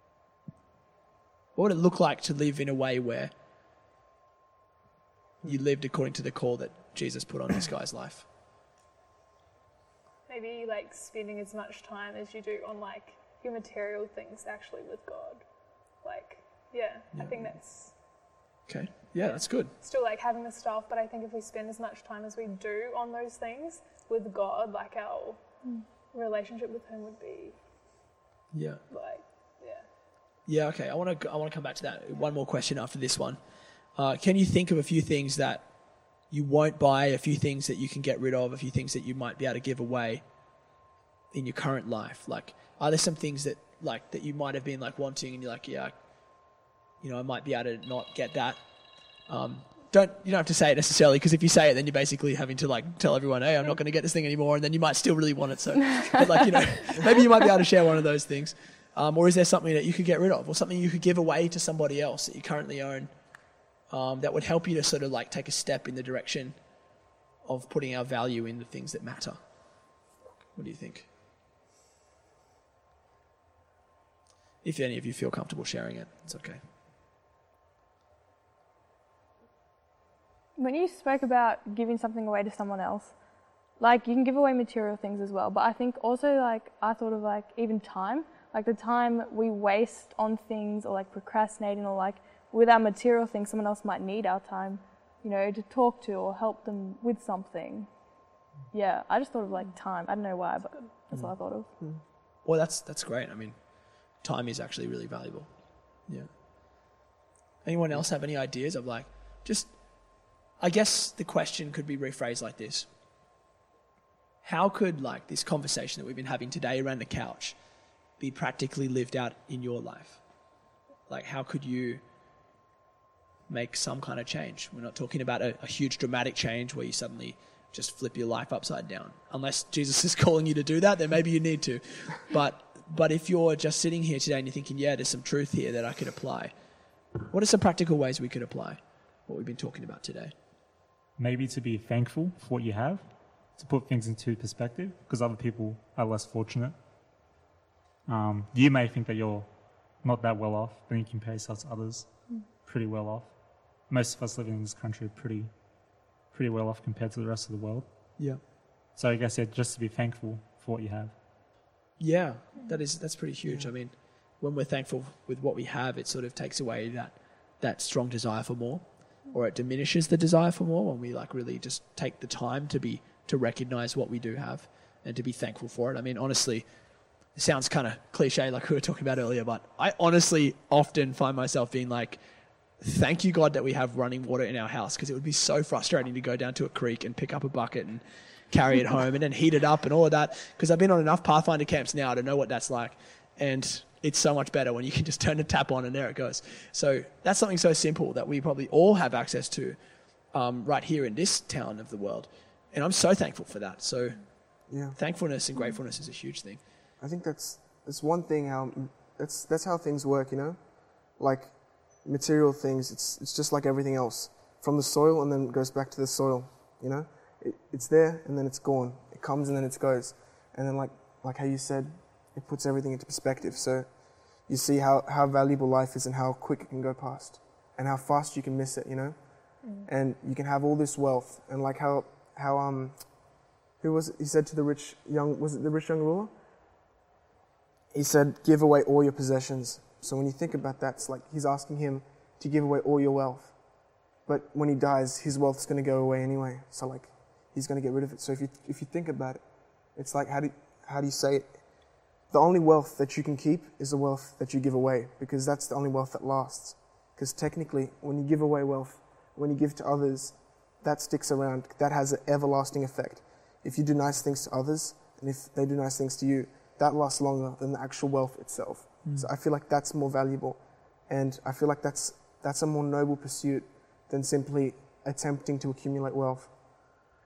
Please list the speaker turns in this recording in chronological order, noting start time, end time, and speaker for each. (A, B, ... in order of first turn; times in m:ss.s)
0:01.5-0:03.3 A
0:05.4-0:08.2 A
0:10.3-0:15.4 B
0:16.0-0:17.9 B
0:17.1-0:17.6 A
0:18.7-0:19.7 A
0:19.2-0:25.4 B
0:26.1-0:27.6 B
0:28.5-0:28.8 A
0:28.9-0:29.8 B
0:30.5-0:33.4 A
0:33.9-0:35.7 A
0:36.3-0:40.2 A
0:41.3-0:45.9 A
0:47.0-0:48.6 A
0:49.3-1:03.1 A
1:03.9-1:06.6 A
1:07.4-1:09.4 A
1:10.6-1:11.1 A
1:14.6-1:16.6 A
1:20.6-1:23.1 C
1:23.8-1:37.9 C
1:38.7-1:41.7 C
1:42.4-1:43.6 A
1:44.2-1:45.5 A
1:47.6-1:52.9 A
1:54.4-1:57.6 A
1:58.2-2:00.2 A
2:01.1-2:02.0 A
2:03.5-2:16.5 A
2:17.2-2:20.3 A
2:21.2-2:26.8 D
2:28.1-2:35.5 D
2:36.3-2:37.9 D
2:39.0-2:41.1 D
2:42.0-2:56.7 A
2:57.3-3:02.2 A
3:02.8-3:19.8 A
3:20.3-3:26.6 A
3:24.7-3:25.0 E
3:27.0-3:30.6 E
3:31.2-3:43.9 E
3:44.5-3:49.2 E
3:49.6-3:49.9 B
3:49.8-3:53.2 E
3:53.8-3:56.3 E
3:57.9-4:03.5 E
4:04.2-4:09.4 E
4:09.9-4:11.6 E
4:12.3-4:36.5 E